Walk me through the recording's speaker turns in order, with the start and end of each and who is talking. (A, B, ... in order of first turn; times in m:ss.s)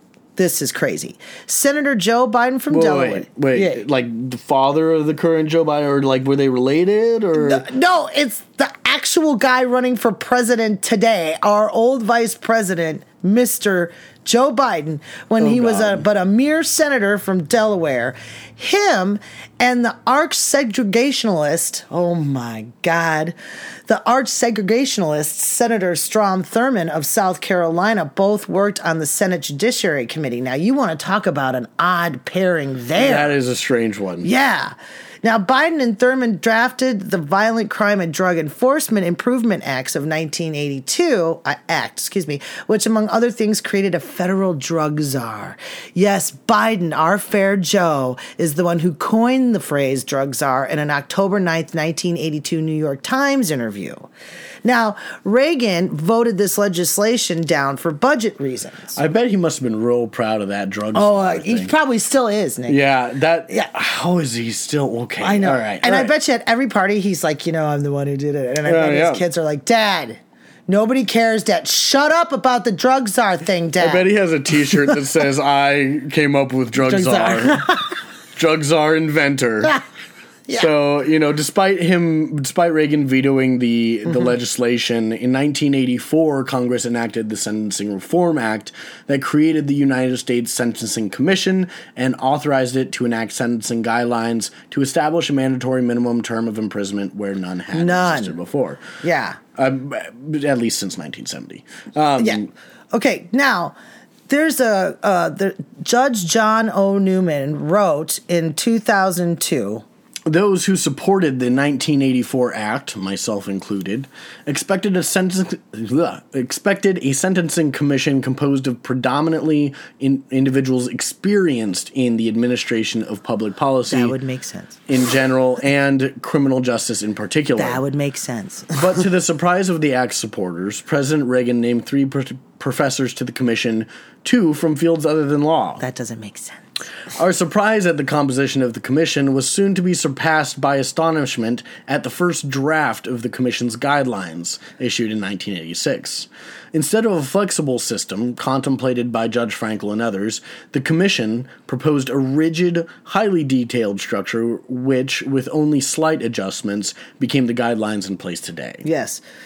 0:00.4-0:03.8 A
0:02.7-0:07.6 B
0:07.4-0:23.3 A
0:15.4-0:16.0 B
0:23.9-0:33.3 A
0:33.0-0:34.3 B
0:34.2-0:54.1 A
0:54.6-0:59.0 A
0:59.0-1:01.7 B
1:00.9-1:02.8 A
1:02.7-1:06.1 B
1:05.2-1:14.1 A
1:08.6-1:09.2 B
1:13.8-1:17.7 B
1:16.8-1:17.9 A
1:18.4-1:19.8 B
1:20.5-1:38.8 B
1:37.7-1:38.4 A
1:39.0-1:39.4 A
1:39.6-1:42.5 B
1:42.2-1:43.8 A
1:44.3-1:49.8 A
1:50.2-2:04.2 B
2:03.9-2:04.8 A
2:04.9-2:07.8 B
2:07.6-2:09.0 A
2:08.7-2:15.8 B
2:15.8-2:16.6 A
2:17.1-2:38.8 B
2:38.8-2:39.2 A